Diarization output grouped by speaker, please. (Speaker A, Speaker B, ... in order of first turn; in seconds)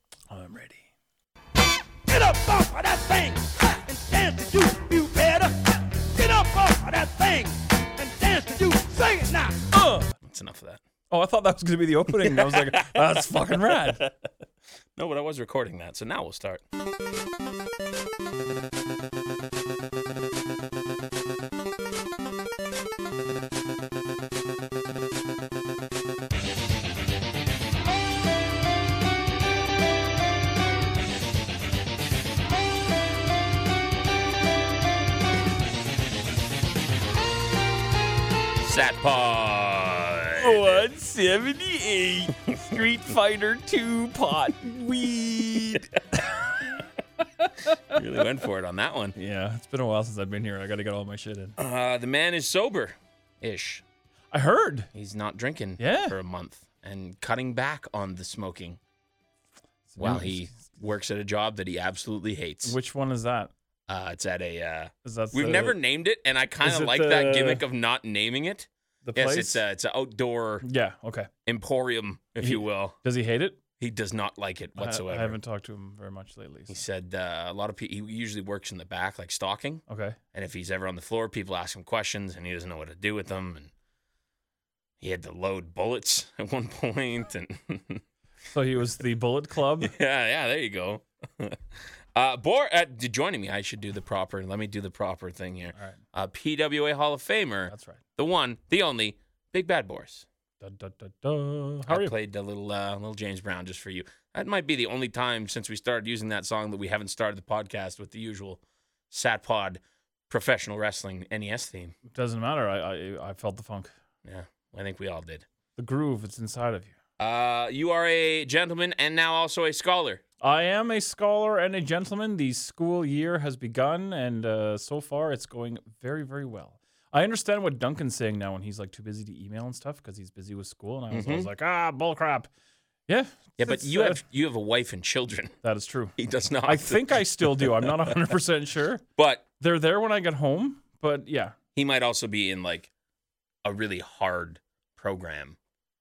Speaker A: 0.3-0.9, 9.7-10.1, 11.1-14.0, 40.4-46.3, 47.4-48.0, 49.1-51.5, 54.3-54.9, 55.8-56.2, 59.9-60.6, 62.6-63.5, 65.0-65.8, 66.6-67.6, 69.0-69.6, 70.6-71.3, 72.4-73.6, 74.8-76.8, 79.9-80.2, 88.5-89.9, 97.7-98.0, 100.6-102.1, 112.1-113.9, 115.8-116.9, 120.4-132.5, 133.1-134.2, 135.6-139.0, 139.6-141.6
Speaker B: 2.1-9.6
Speaker C: 10.2-10.8, 12.2-14.2, 15.0-16.6, 38.6-40.9, 47.9-49.2, 51.6-53.8, 54.9-58.8, 60.0-62.8, 63.9-70.7, 71.5-73.0, 73.8-75.4, 76.7-83.7, 85.0-88.0, 89.8-100.3, 101.9-112.0, 114.2-115.5, 117.2-120.2, 131.1-131.5, 133.6-135.6, 136.2-138.2, 139.2-139.4, 141.8-142.9, 143.6-145.6